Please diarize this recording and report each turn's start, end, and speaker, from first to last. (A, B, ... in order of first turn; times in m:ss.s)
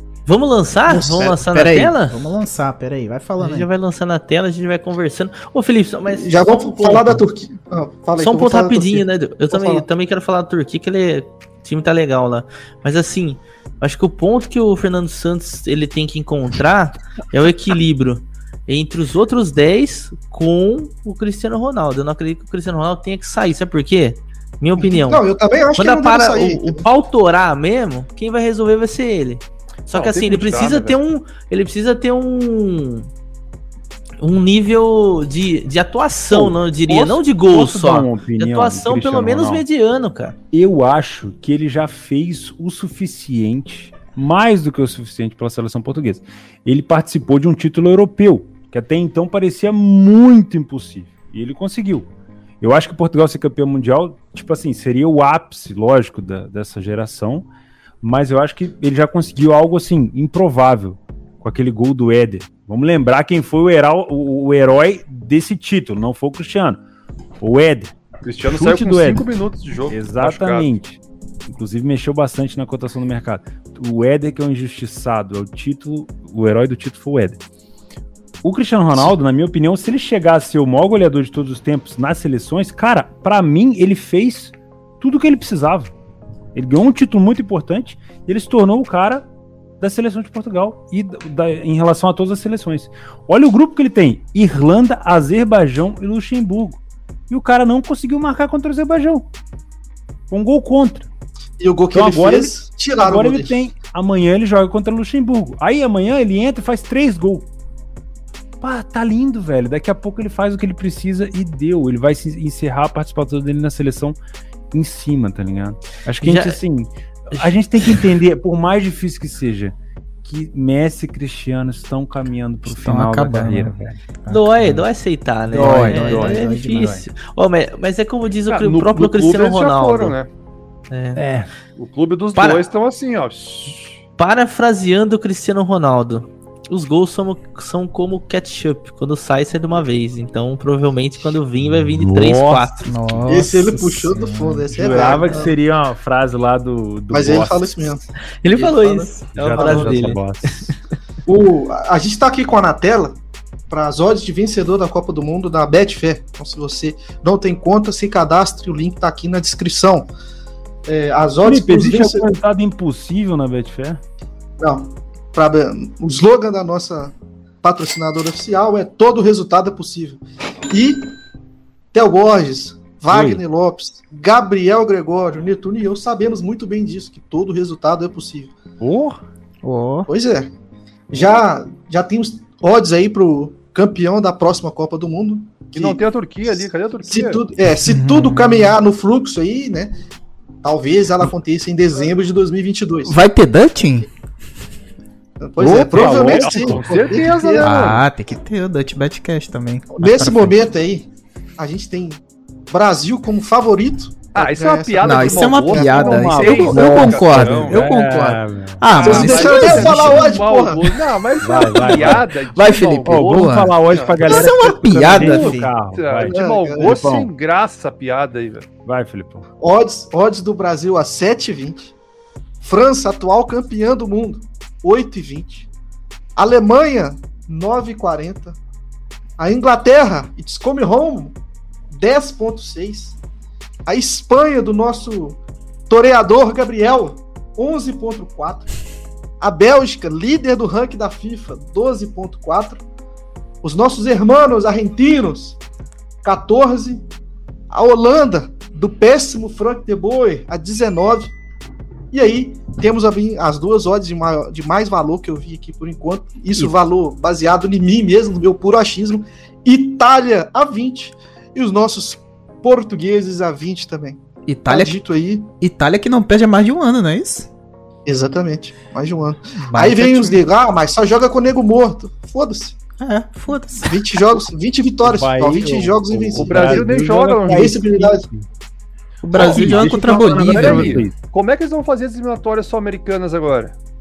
0:00.3-0:02.2 A
0:00.9-0:03.7 B
0:03.4-0:07.2 A
0:06.1-0:09.8 C
0:08.2-0:25.2 A
0:24.8-0:26.9 C
0:25.8-0:33.1 A
0:29.9-0:31.0 D
0:34.2-0:40.4 A
0:36.3-0:39.6 E
0:40.5-0:52.1 E
0:52.6-0:57.5 E
0:58.0-1:06.8 E
1:07.4-1:09.3 E
1:08.2-1:10.7 D
1:09.9-1:17.4 E
1:18.4-1:25.9 E
1:26.6-1:29.2 E
1:29.8-1:39.2 E
1:40.3-1:41.1 E
1:41.6-1:43.6 C
1:41.9-1:47.5 E
1:48.6-1:54.2 E
1:54.7-2:04.0 E
1:56.2-1:56.6 A
1:57.3-1:58.0 A
2:02.7-2:04.9 B
2:04.3-2:10.2 A
2:05.5-2:07.1 B
2:05.5-2:06.4 E
2:08.5-2:10.3 D
2:10.9-2:11.2 A
2:11.2-2:11.4 B
2:11.8-2:13.9 D
2:12.4-2:12.6 A
2:14.2-2:22.9 A
2:21.8-2:22.9 E
2:22.8-2:25.0 B
2:23.3-2:25.6 C
2:24.7-2:27.9 E
2:27.1-2:30.2 C
2:28.4-2:30.8 A
2:29.4-2:30.7 E
2:31.3-2:33.2 C
2:33.7-2:40.1 C
2:40.9-2:42.3 C
2:41.4-2:44.0 E
2:44.6-2:51.1 C
2:51.9-2:58.5 C
2:53.1-2:53.4 E
2:58.8-2:59.2 E
2:59.6-3:00.1 B
3:00.1-3:00.5 C
3:01.1-3:06.0 C
3:05.7-3:07.4 D
3:07.1-3:09.9 C
3:07.8-3:08.8 B
3:10.6-3:13.2 C
3:13.0-3:14.1 B
3:15.4-3:17.8 C
3:15.6-3:17.3 E
3:15.8-3:18.0 D
3:17.6-3:20.6 B
3:20.0-3:21.1 C
3:21.6-3:22.2 C
3:22.7-3:26.3 C
3:24.3-3:27.9 D
3:25.0-3:30.4 B
3:25.7-3:28.8 E
3:28.9-3:38.7 D
3:29.0-3:30.9 C
3:31.4-3:32.3 E
3:31.5-3:35.7 B
3:33.1-3:37.3 E
3:36.2-3:37.1 C
3:38.8-3:39.5 E
3:39.6-3:41.9 C
3:42.6-3:45.7 C
3:46.4-3:48.6 C
3:49.4-3:51.4 C
3:51.9-3:53.2 C
3:53.9-3:55.4 C
3:55.9-3:58.7 C
3:59.4-4:02.8 C
4:03.6-4:05.6 C
4:06.2-4:07.0 C
4:07.7-4:11.3 C
4:12.1-4:25.5 C
4:24.5-4:24.9 B
4:25.6-4:27.5 B
4:28.1-4:32.8 C
4:29.6-4:30.4 B
4:33.0-4:34.1 B
4:33.9-4:37.0 C
4:35.0-4:38.4 E
4:36.4-4:37.8 D
4:37.5-4:38.3 C
4:39.2-4:41.0 B
4:39.3-4:41.2 E
4:39.3-4:43.7 D